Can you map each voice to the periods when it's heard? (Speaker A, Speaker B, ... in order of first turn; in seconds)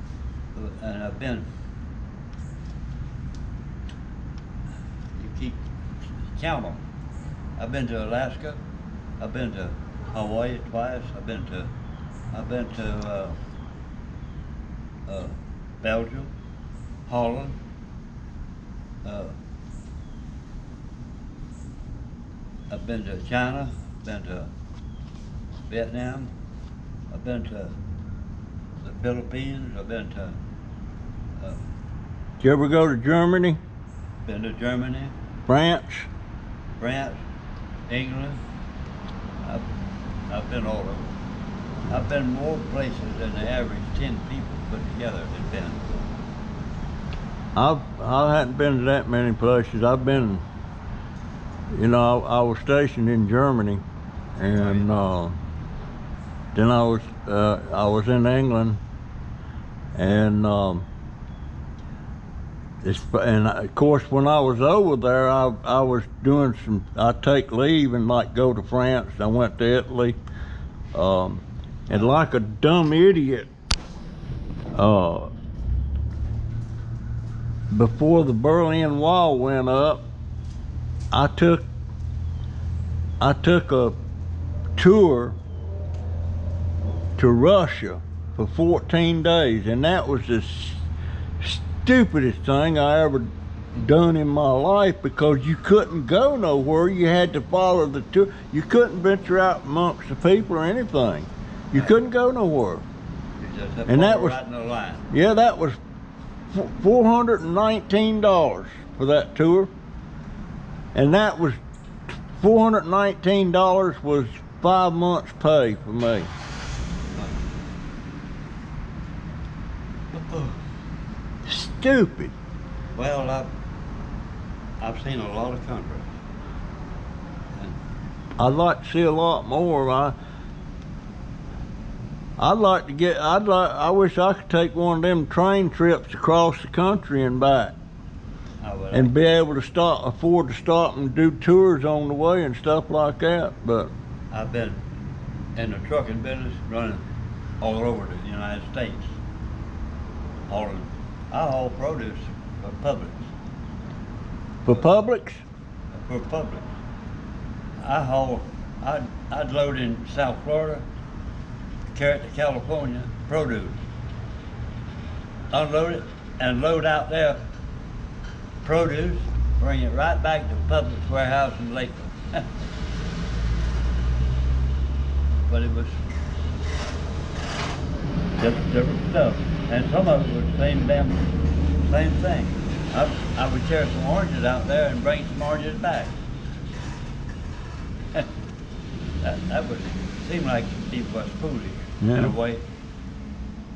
Speaker A: 0.5-1.5, 5.1-5.6, 6.3-6.8, 7.6-8.6, 9.2-11.7, 12.3-13.4, 15.1-16.3, 17.1-17.6, 19.0-19.4, 22.7-24.5, 25.7-26.3, 27.1-27.7, 28.8-30.4, 34.2-35.1, 36.8-37.2, 37.9-38.4, 40.3-41.1, 41.9-45.9, 54.4-55.1, 103.4-105.0, 117.1-117.4, 120.1-120.6, 122.9-123.5, 124.8-126.1, 138.6-139.1, 144.3-144.8, 145.6-147.1, 147.6-149.2, 150.5-153.3, 155.9-156.7, 157.8-160.8, 161.9-163.8, 165.5-167.4, 168.6-172.5, 175.5-176.0, 178.4-181.3, 181.8-186.2, 189.2-192.6
Speaker B: 32.4-33.6, 35.5-36.1, 47.5-50.4, 51.7-53.8, 54.4-55.4, 56.5-58.8, 59.9-60.9, 62.8-70.2, 70.9-73.5, 74.7-75.3, 77.7-80.0, 81.1-81.7, 83.2-84.0, 84.8-85.4, 87.2-90.8, 91.4-102.8, 103.9-104.4, 105.1-105.8, 106.5-109.7, 110.9-116.3, 121.5-122.3, 128.4-130.1, 132.4-137.8, 138.9-143.9, 154.6-155.4, 192.0-192.3